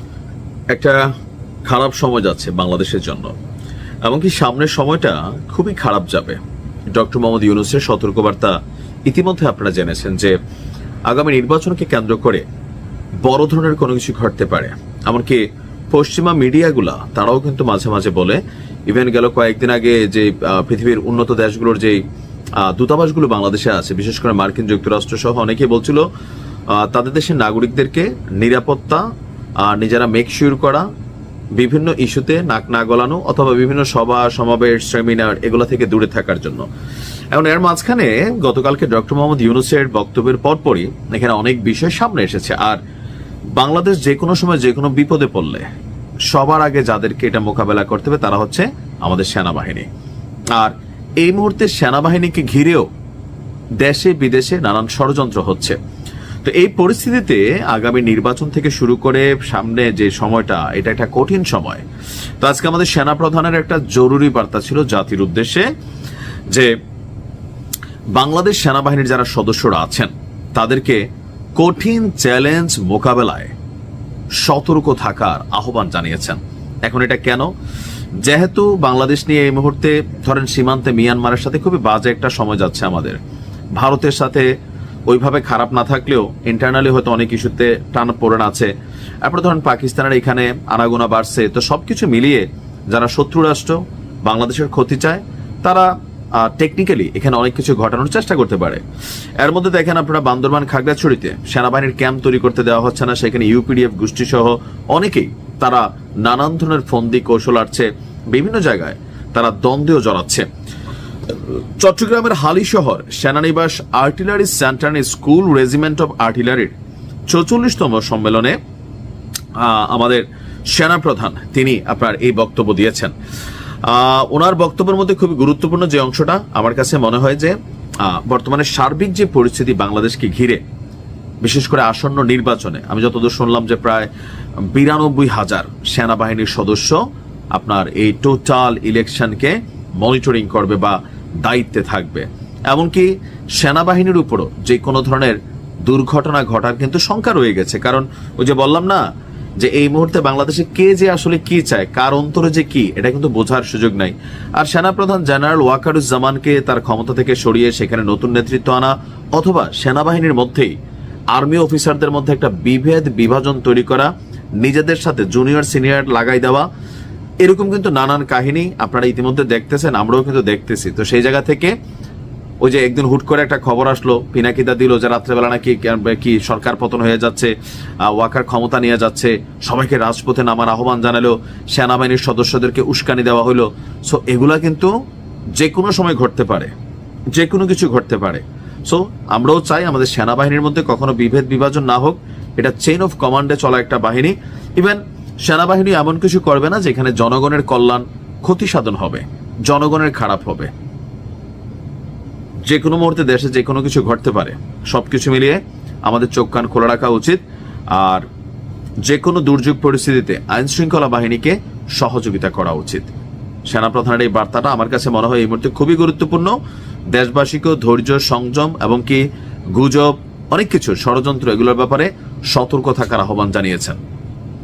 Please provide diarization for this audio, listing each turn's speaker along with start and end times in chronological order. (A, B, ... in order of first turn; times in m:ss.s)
0:00.7-0:01.1 A
0:01.6-0:03.3 A
0:04.0-0:06.4 A
0:06.9-0:10.4 A
0:11.0-0:12.4 A
0:13.2-0:22.0 A
0:22.6-0:26.1 A
0:26.7-0:29.0 A
0:29.6-0:30.9 A
0:31.6-0:36.7 A
0:37.3-0:42.8 A
0:43.5-0:45.7 A
0:46.3-0:49.9 A
0:50.5-0:52.9 A
0:53.8-0:55.8 A
0:56.4-1:01.8 A
1:02.4-1:05.7 A
1:08.1-1:11.0 A
1:11.6-1:13.5 A
1:14.4-1:17.5 A
1:18.2-1:23.2 A
1:23.8-1:24.5 A
1:25.1-1:28.7 A
1:29.2-1:38.8 A
1:39.4-1:50.5 A
1:51.3-1:56.7 A
1:57.3-1:58.6 A
1:59.6-2:03.1 A
2:03.8-2:10.6 A
2:11.4-2:14.1 A
2:14.7-2:17.0 A
2:17.5-2:29.0 A
2:29.6-2:40.8 A
2:41.3-2:46.7 A
2:47.4-2:51.8 A
2:52.6-3:04.9 A
3:05.6-3:06.7 A
3:07.3-3:20.7 A
3:22.6-3:27.4 A
3:27.9-3:28.2 A
3:29.0-3:33.1 A
3:33.6-3:36.6 A
3:37.1-3:44.0 A